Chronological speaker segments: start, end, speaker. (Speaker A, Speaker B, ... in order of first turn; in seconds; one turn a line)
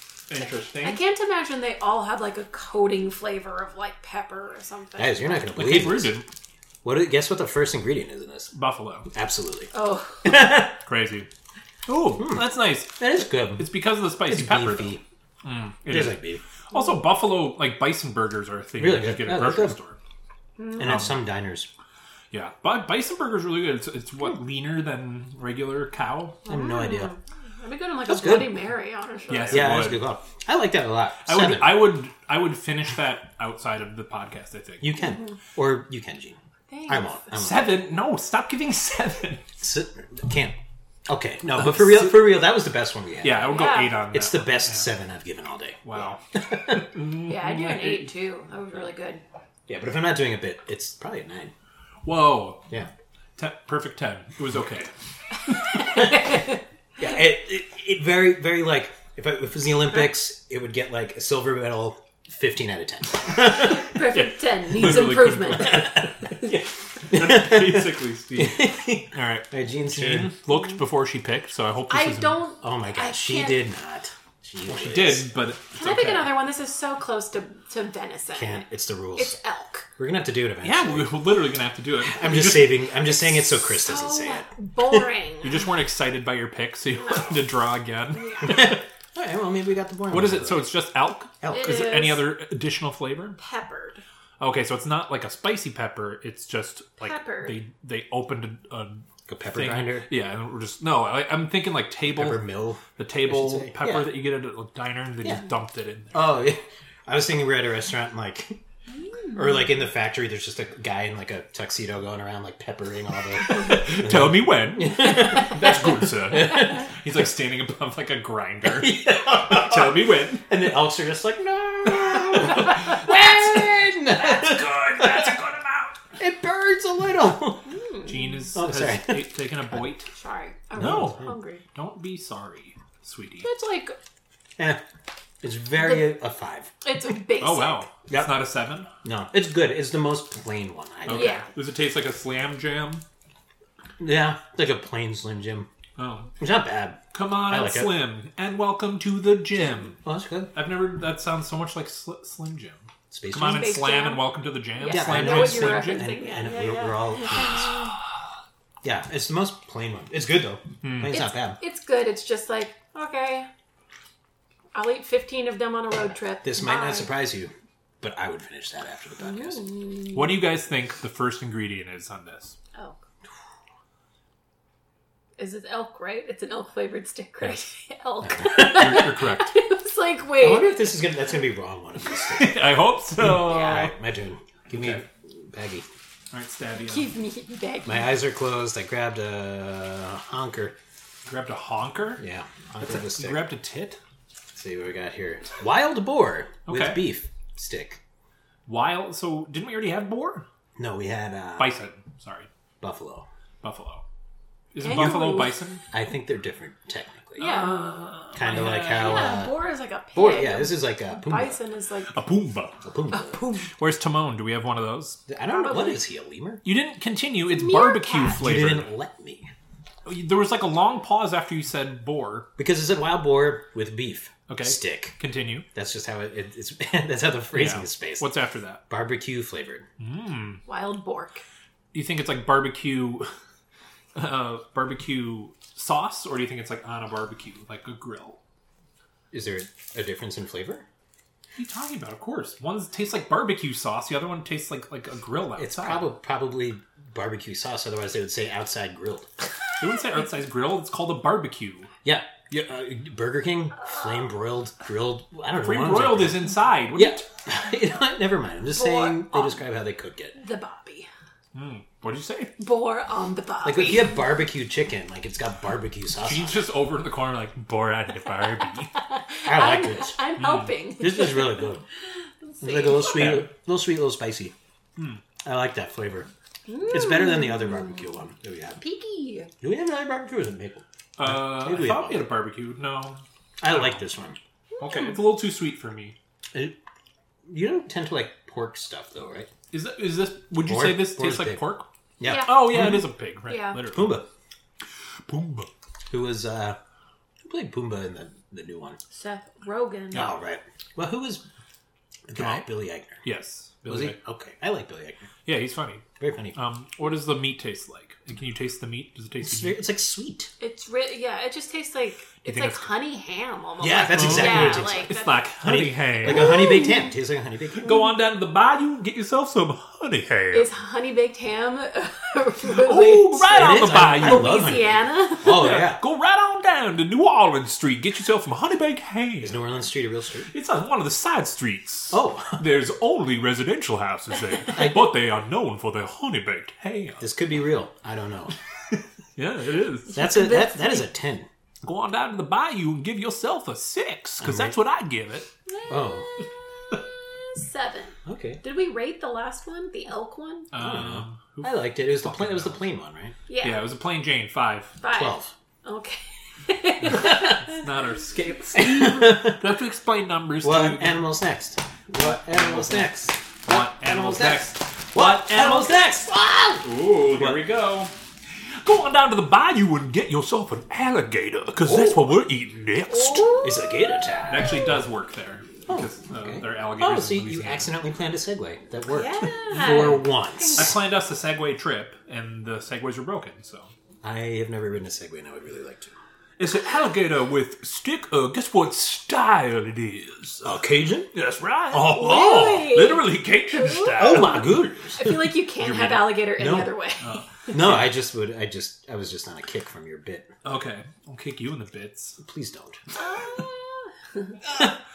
Speaker A: 0.3-1.0
Speaker B: 0.7-5.4
Speaker C: 5.0-6.2
Speaker A: 5.5-6.3
Speaker C: 6.8-8.5
Speaker A: 8.5-9.1
Speaker C: 9.1-9.7
Speaker B: 9.7-10.5
Speaker C: 10.2-10.8
Speaker A: 10.8-11.3
Speaker A: 11.9-20.0
Speaker C: 12.2-15.0
Speaker C: 15.9-16.4
Speaker C: 18.8-19.8
Speaker B: 20.6-20.9
Speaker C: 20.8-21.7
Speaker A: 20.8-21.2
Speaker A: 22.3-26.4
Speaker C: 26.5-27.1
Speaker B: 26.5-29.8
Speaker C: 28.1-28.5
Speaker A: 29.3-30.1
Speaker C: 29.5-32.0
Speaker A: 31.2-34.9
Speaker C: 34.8-37.8
Speaker B: 36.7-37.3
Speaker A: 37.3-39.5
Speaker C: 39.6-46.9
Speaker A: 41.6-42.3
Speaker A: 43.2-44.9
Speaker B: 43.5-44.0
Speaker A: 45.8-48.1
Speaker B: 47.2-49.2
Speaker C: 49.7-51.5
Speaker A: 52.0-52.7
Speaker A: 53.4-54.9
Speaker A: 55.5-55.9
Speaker B: 55.7-56.6
Speaker C: 55.9-56.5
Speaker C: 57.0-63.9
Speaker B: 63.5-66.5
Speaker A: 64.0-72.4
Speaker C: 65.7-66.0
Speaker C: 67.1-70.3
Speaker B: 71.9-73.7
Speaker C: 72.6-75.3
Speaker A: 74.7-76.3
Speaker B: 75.8-79.9
Speaker C: 78.3-79.4
Speaker C: 80.0-81.2
Speaker A: 80.6-83.1
Speaker C: 82.0-85.0
Speaker B: 83.7-85.7
Speaker A: 85.4-88.8
Speaker B: 87.0-87.4
Speaker B: 88.1-88.7
Speaker C: 88.4-90.7
Speaker A: 90.1-93.4
Speaker C: 91.4-91.8
Speaker B: 91.5-92.3
Speaker B: 93.4-94.0
Speaker A: 94.4-106.5
Speaker B: 97.0-97.6
Speaker C: 99.3-100.1
Speaker C: 102.1-104.2
Speaker C: 106.1-108.6
Speaker C: 109.3-116.8
Speaker A: 113.4-120.5
Speaker C: 118.6-125.4
Speaker A: 122.6-123.0
Speaker A: 124.2-126.0
Speaker C: 126.2-127.7
Speaker B: 127.7-128.4
Speaker A: 128.1-130.1
Speaker C: 128.5-129.8
Speaker B: 130.1-131.6
Speaker C: 130.8-131.3
Speaker A: 130.8-133.5
Speaker B: 133.4-134.0
Speaker C: 135.4-136.7
Speaker B: 135.8-136.2
Speaker B: 136.8-137.9
Speaker A: 137.4-138.9
Speaker C: 138.1-138.4
Speaker C: 139.0-141.4
Speaker A: 141.1-143.0
Speaker B: 141.1-141.5
Speaker C: 144.0-145.7
Speaker A: 146.0-146.3
Speaker C: 146.4-148.0
Speaker A: 147.1-150.0
Speaker C: 150.0-150.6
Speaker A: 150.5-156.2
Speaker C: 153.1-153.8
Speaker B: 153.4-157.9
Speaker C: 154.9-157.9
Speaker C: 158.8-161.6
Speaker A: 160.8-161.2
Speaker B: 161.1-163.5
Speaker B: 164.7-167.1
Speaker C: 166.4-169.8
Speaker B: 169.2-170.3
Speaker A: 170.1-172.6
Speaker B: 175.4-180.9
Speaker C: 178.2-179.1
Speaker A: 178.5-179.5
Speaker C: 180.4-182.7
Speaker A: 182.2-183.9
Speaker C: 183.2-185.9
Speaker B: 183.4-183.9
Speaker A: 184.7-185.0
Speaker A: 186.3-187.1
Speaker B: 186.8-188.2
Speaker C: 187.8-190.8
Speaker A: 191.3-192.2
Speaker C: 192.2-193.5
Speaker A: 192.8-194.0
Speaker C: 194.6-198.0
Speaker A: 196.7-197.1
Speaker A: 198.7-200.5
Speaker C: 200.8-201.8
Speaker A: 201.6-202.5
Speaker C: 202.8-203.3
Speaker A: 203.6-204.0
Speaker A: 204.7-205.8
Speaker B: 204.8-205.6
Speaker C: 205.9-207.7
Speaker B: 207.4-208.2
Speaker A: 207.4-209.4
Speaker C: 208.3-209.5
Speaker B: 208.8-212.2
Speaker C: 210.1-211.6
Speaker A: 212.1-212.8
Speaker C: 212.8-213.4
Speaker B: 213.1-213.7
Speaker A: 213.7-215.2
Speaker C: 215.3-216.6
Speaker B: 215.4-216.0
Speaker A: 216.7-218.9
Speaker B: 217.5-218.4
Speaker C: 218.4-219.5
Speaker A: 220.1-222.5
Speaker C: 222.6-225.2
Speaker A: 224.5-225.7
Speaker C: 225.8-228.3
Speaker A: 227.5-228.8
Speaker C: 228.9-229.9
Speaker A: 230.0-230.6
Speaker B: 230.7-231.4
Speaker A: 231.9-233.3
Speaker A: 234.2-238.4
Speaker C: 239.3-240.9
Speaker A: 241.6-246.1
Speaker C: 245.6-249.3
Speaker A: 249.8-251.9
Speaker C: 252.0-260.4
Speaker A: 255.6-257.2
Speaker B: 258.7-259.6
Speaker B: 260.4-261.1
Speaker A: 261.5-262.5
Speaker B: 262.6-264.2
Speaker C: 263.6-266.7
Speaker A: 266.2-268.9
Speaker B: 269.0-271.7
Speaker C: 269.4-270.2
Speaker A: 270.4-270.7
Speaker C: 271.0-271.8
Speaker B: 272.4-273.4
Speaker C: 272.6-274.5
Speaker A: 273.1-273.5
Speaker A: 275.0-275.2
Speaker C: 275.4-276.3
Speaker B: 276.7-278.0
Speaker C: 276.8-278.8
Speaker B: 278.8-279.5
Speaker C: 279.6-282.3
Speaker A: 281.2-284.0
Speaker C: 283.6-284.4
Speaker B: 284.8-285.2
Speaker A: 284.8-286.2
Speaker C: 287.5-289.5
Speaker A: 289.7-294.2
Speaker C: 290.6-291.6
Speaker C: 292.2-293.1
Speaker B: 292.2-292.8
Speaker B: 293.5-293.8
Speaker C: 293.9-294.3
Speaker A: 295.3-295.7
Speaker C: 296.1-296.8
Speaker C: 297.4-299.0
Speaker B: 299.1-300.3
Speaker C: 300.1-301.4
Speaker C: 302.3-303.2
Speaker A: 302.4-302.7
Speaker A: 303.2-304.2
Speaker C: 303.9-305.3
Speaker A: 305.5-306.0
Speaker C: 306.2-306.6
Speaker A: 306.6-309.8
Speaker C: 309.4-310.5
Speaker B: 310.6-315.4
Speaker A: 312.4-312.9
Speaker C: 313.8-318.0
Speaker A: 314.1-316.6
Speaker B: 316.2-317.1
Speaker A: 317.8-320.7
Speaker B: 320.5-325.7
Speaker A: 322.8-324.6
Speaker C: 323.5-326.0
Speaker A: 325.4-329.6
Speaker C: 329.4-330.5
Speaker A: 330.5-337.2
Speaker C: 332.1-332.6
Speaker C: 334.7-335.2
Speaker C: 337.2-338.5
Speaker A: 339.4-340.2
Speaker B: 340.1-341.1
Speaker C: 340.1-341.5
Speaker A: 341.8-345.5
Speaker C: 344.4-344.8
Speaker B: 345.7-346.3
Speaker C: 345.9-346.3
Speaker B: 346.9-350.7
Speaker C: 348.3-348.6
Speaker A: 350.7-352.8
Speaker C: 350.8-353.4
Speaker B: 353.5-353.9
Speaker A: 353.6-354.9
Speaker B: 355.0-357.9
Speaker C: 355.1-355.5
Speaker A: 357.1-361.3
Speaker C: 358.8-359.8
Speaker C: 360.6-367.6
Speaker A: 362.1-366.2
Speaker A: 366.8-368.1
Speaker A: 368.8-373.6
Speaker C: 371.8-372.4
Speaker B: 373.1-374.1
Speaker C: 373.6-374.9
Speaker A: 374.5-377.9
Speaker C: 375.9-381.0
Speaker B: 379.1-380.9
Speaker A: 379.8-380.2
Speaker A: 380.7-383.9
Speaker C: 384.2-386.1
Speaker A: 386.6-390.7
Speaker C: 390.6-391.3
Speaker A: 391.3-394.7
Speaker C: 391.9-392.9
Speaker B: 392.0-394.6
Speaker C: 394.1-395.6
Speaker B: 395.2-397.4
Speaker A: 395.8-396.5
Speaker C: 396.6-396.9
Speaker A: 397.2-398.1
Speaker C: 397.7-400.5
Speaker A: 400.6-402.4
Speaker C: 402.4-403.0
Speaker B: 403.2-404.5